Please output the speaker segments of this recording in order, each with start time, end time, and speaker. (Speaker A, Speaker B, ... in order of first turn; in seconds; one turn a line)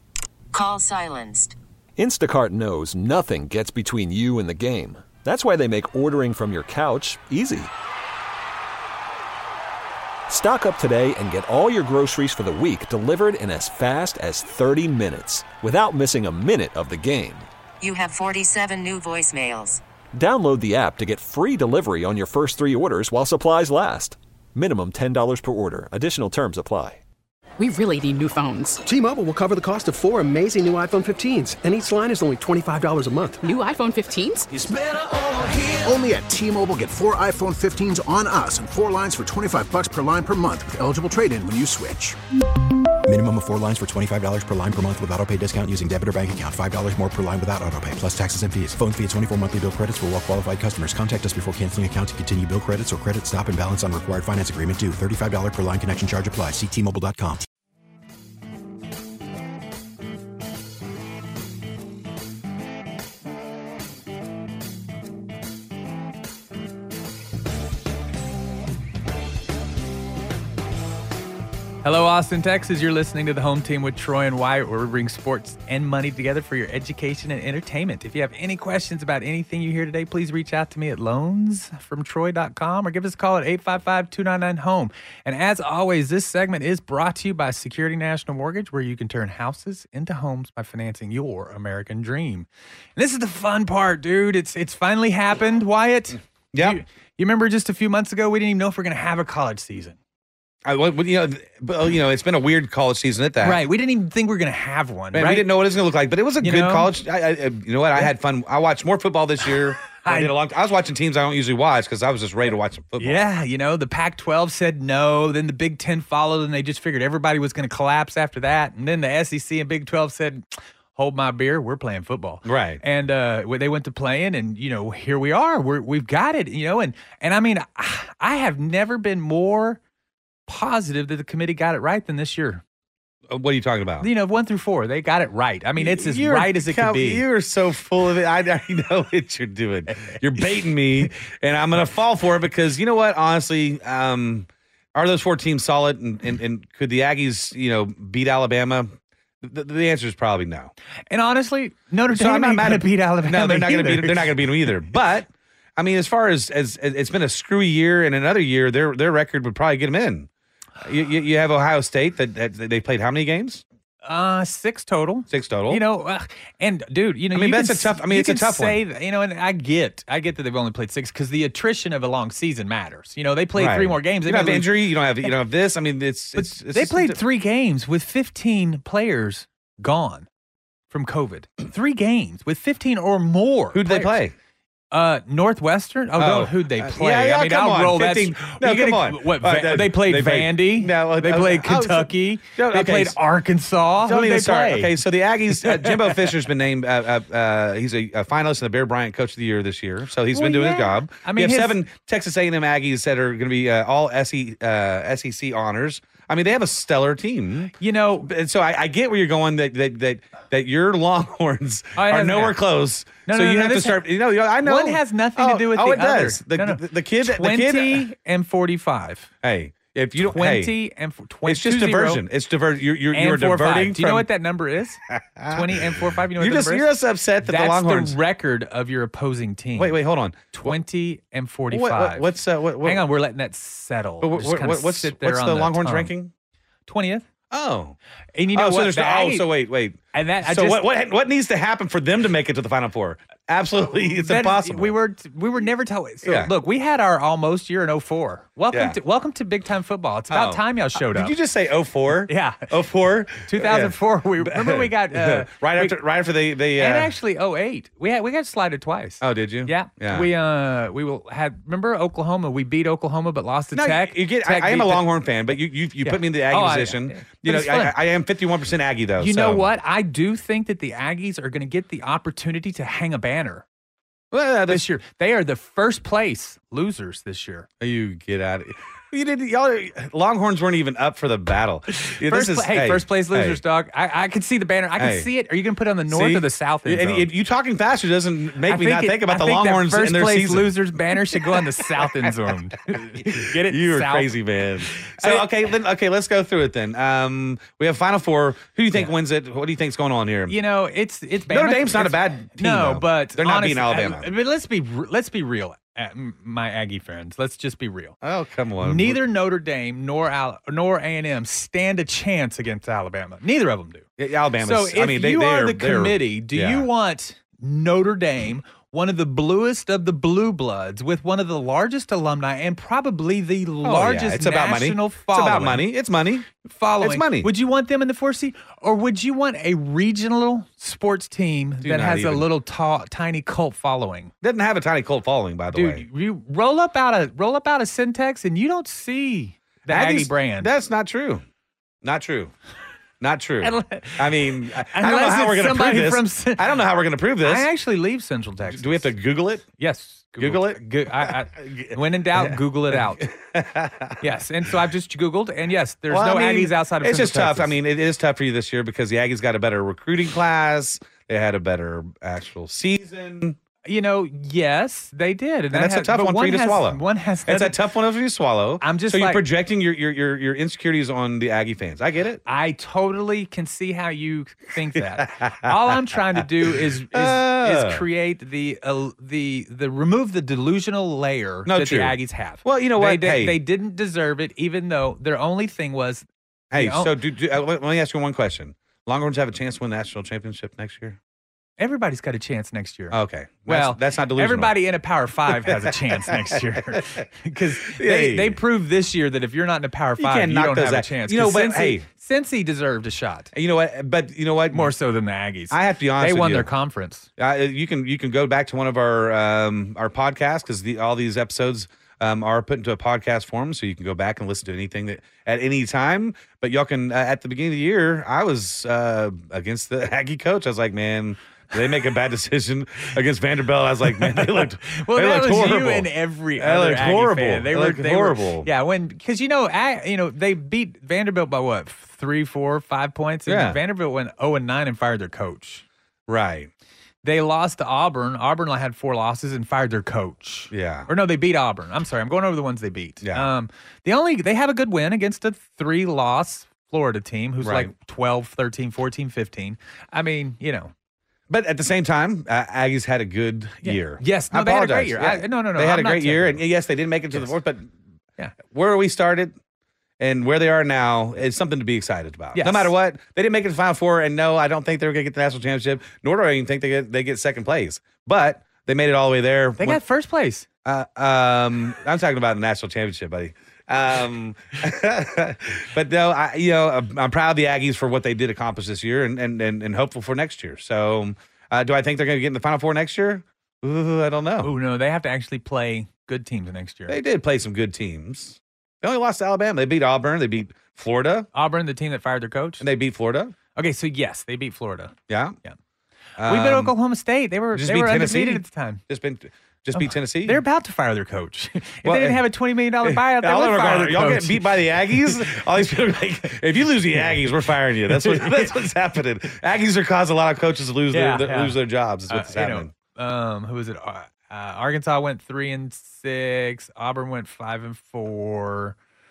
Speaker A: 0.5-1.6
Speaker B: 2.0-7.7
Speaker B: 10.3-17.5
Speaker A: 17.8-19.8
Speaker B: 20.1-27.0
Speaker C: 27.6-28.8
Speaker D: 28.9-33.4
Speaker C: 33.4-34.5
Speaker E: 35.6-42.2
Speaker F: 43.0-57.5
Speaker G: 71.8-100.0
Speaker H: 96.5-96.8
Speaker H: 100.6-103.6
Speaker G: 103.4-105.5
Speaker H: 105.1-113.2
Speaker G: 106.4-106.9
Speaker G: 110.0-110.3
Speaker G: 113.0-129.8
Speaker H: 122.4-122.8
Speaker G: 130.5-132.6
Speaker H: 133.3-134.1
Speaker G: 134.0-137.2
Speaker H: 135.8-148.9
Speaker H: 149.4-150.7
Speaker G: 151.1-154.7
Speaker H: 152.1-160.3
Speaker H: 160.8-163.6
Speaker G: 164.0-174.9
Speaker H: 165.3-165.8
Speaker H: 167.3-168.8
Speaker H: 173.6-177.2
Speaker G: 176.4-180.3
Speaker G: 180.9-184.2
Speaker H: 183.7-184.3
Speaker G: 184.9-195.0
Speaker H: 186.2-193.2
Speaker H: 194.0-218.1
Speaker G: 195.6-196.3
Speaker G: 200.3-201.8
Speaker G: 207.8-208.3
Speaker G: 211.9-212.6
Speaker G: 213.2-214.1
Speaker G: 214.6-219.3
Speaker H: 219.4-220.8
Speaker G: 220.2-222.2
Speaker H: 221.4-224.3
Speaker G: 223.1-226.9
Speaker H: 225.1-228.2
Speaker G: 227.4-230.0
Speaker H: 229.8-230.7
Speaker G: 230.5-232.3
Speaker H: 231.7-233.1
Speaker G: 232.8-236.1
Speaker H: 234.2-236.3
Speaker G: 236.9-237.2
Speaker H: 237.5-238.0
Speaker G: 238.3-239.5
Speaker H: 238.5-244.9
Speaker G: 240.1-240.9
Speaker G: 244.1-251.3
Speaker H: 246.2-246.5
Speaker H: 248.7-249.0
Speaker H: 250.3-257.1
Speaker G: 252.2-252.7
Speaker G: 253.4-256.0
Speaker G: 256.8-265.1
Speaker H: 259.2-260.3
Speaker H: 263.7-269.7
Speaker G: 266.0-268.0
Speaker G: 269.2-273.6
Speaker H: 274.3-274.9
Speaker G: 274.7-277.7
Speaker H: 277.8-283.6
Speaker G: 281.9-287.3
Speaker H: 285.0-285.3
Speaker H: 286.1-292.1
Speaker G: 288.6-294.4
Speaker H: 292.9-300.6
Speaker G: 294.9-295.5
Speaker G: 300.5-308.2
Speaker H: 301.5-304.3
Speaker H: 308.2-309.2
Speaker G: 308.8-314.1
Speaker H: 314.2-316.9
Speaker G: 314.6-325.9
Speaker H: 323.8-327.5
Speaker G: 326.6-334.3
Speaker H: 331.8-332.5
Speaker H: 334.4-336.0
Speaker G: 335.7-340.7
Speaker H: 339.9-341.4
Speaker H: 342.0-342.5
Speaker H: 343.2-347.7
Speaker G: 343.6-346.7
Speaker G: 347.4-349.1
Speaker H: 348.6-349.6
Speaker G: 349.8-353.3
Speaker H: 350.4-354.3
Speaker G: 354.2-357.8
Speaker H: 356.1-363.6
Speaker G: 363.8-367.8
Speaker H: 365.7-372.4
Speaker G: 368.8-369.4
Speaker G: 372.4-387.1
Speaker H: 375.2-376.0
Speaker H: 377.1-378.0
Speaker H: 381.6-383.6
Speaker H: 386.7-391.2
Speaker G: 391.8-403.5
Speaker H: 393.1-394.7
Speaker H: 395.5-397.2
Speaker H: 397.8-398.6
Speaker H: 400.2-402.1
Speaker H: 403.5-404.9
Speaker G: 404.7-407.3
Speaker H: 405.7-406.7
Speaker H: 407.4-428.7
Speaker G: 424.2-435.8
Speaker H: 433.4-433.8
Speaker H: 436.3-436.7
Speaker G: 437.2-450.9
Speaker H: 440.7-441.1
Speaker H: 443.2-443.5
Speaker H: 447.6-447.9
Speaker H: 451.5-457.9
Speaker G: 453.8-456.6
Speaker H: 458.6-459.6
Speaker H: 460.2-470.0
Speaker G: 462.5-462.9
Speaker G: 469.8-470.7
Speaker H: 470.8-484.7
Speaker G: 484.6-487.2
Speaker H: 487.1-491.5
Speaker G: 491.5-492.9
Speaker H: 492.8-493.6
Speaker G: 493.7-495.8
Speaker H: 495.3-495.6
Speaker H: 496.4-496.9
Speaker G: 496.4-499.0
Speaker H: 497.7-500.6
Speaker G: 499.9-505.6
Speaker H: 502.0-502.4
Speaker H: 503.0-512.9
Speaker G: 508.1-508.8
Speaker G: 511.1-519.0